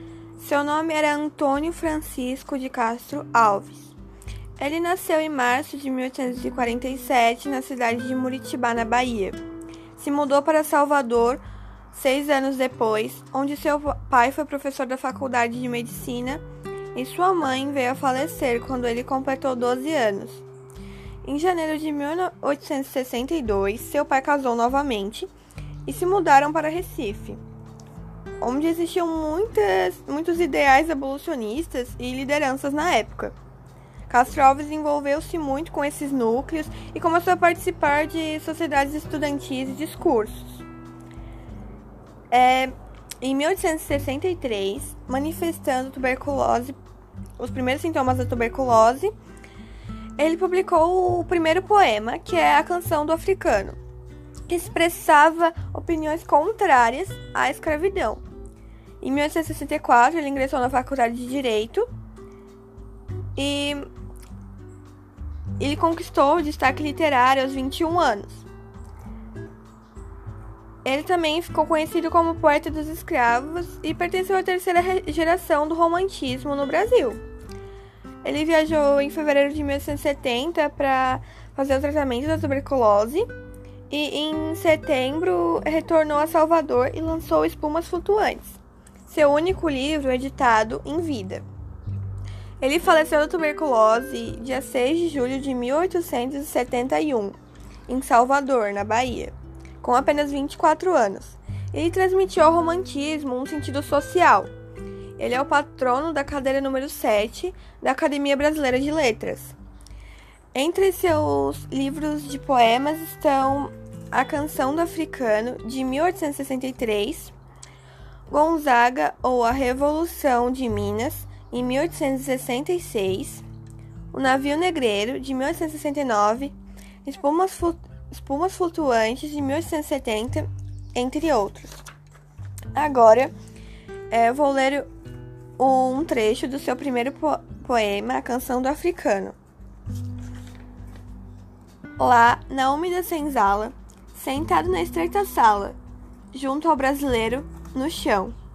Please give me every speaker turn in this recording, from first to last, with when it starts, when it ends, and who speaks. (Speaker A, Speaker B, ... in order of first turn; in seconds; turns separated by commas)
Speaker A: 0.4-3.9, Speaker A: 4.6-9.4, Speaker A: 9.9-16.4, Speaker A: 16.9-20.4, Speaker A: 21.2-25.3, Speaker A: 25.8-27.4, Speaker A: 28.4-33.3, Speaker A: 34.1-40.6, Speaker A: 42.3-46.8, Speaker A: 47.4-49.1, Speaker A: 50.2-53.8, Speaker A: 54.5-58.2, Speaker A: 59.0-61.9, Speaker A: 63.4-63.9, Speaker A: 65.6-68.5, Speaker A: 70.8-77.2, Speaker A: 78.2-83.3, Speaker A: 83.9-91.4, Speaker A: 92.6-97.4, Speaker A: 97.9-104.5, Speaker A: 105.2-109.5, Speaker A: 110.5-117.3, Speaker A: 118.3-123.4, Speaker A: 124.1-131.8, Speaker A: 132.7-133.3, Speaker A: 134.1-134.9, Speaker A: 135.6-139.3, Speaker A: 142.0-145.8, Speaker A: 146.3-148.3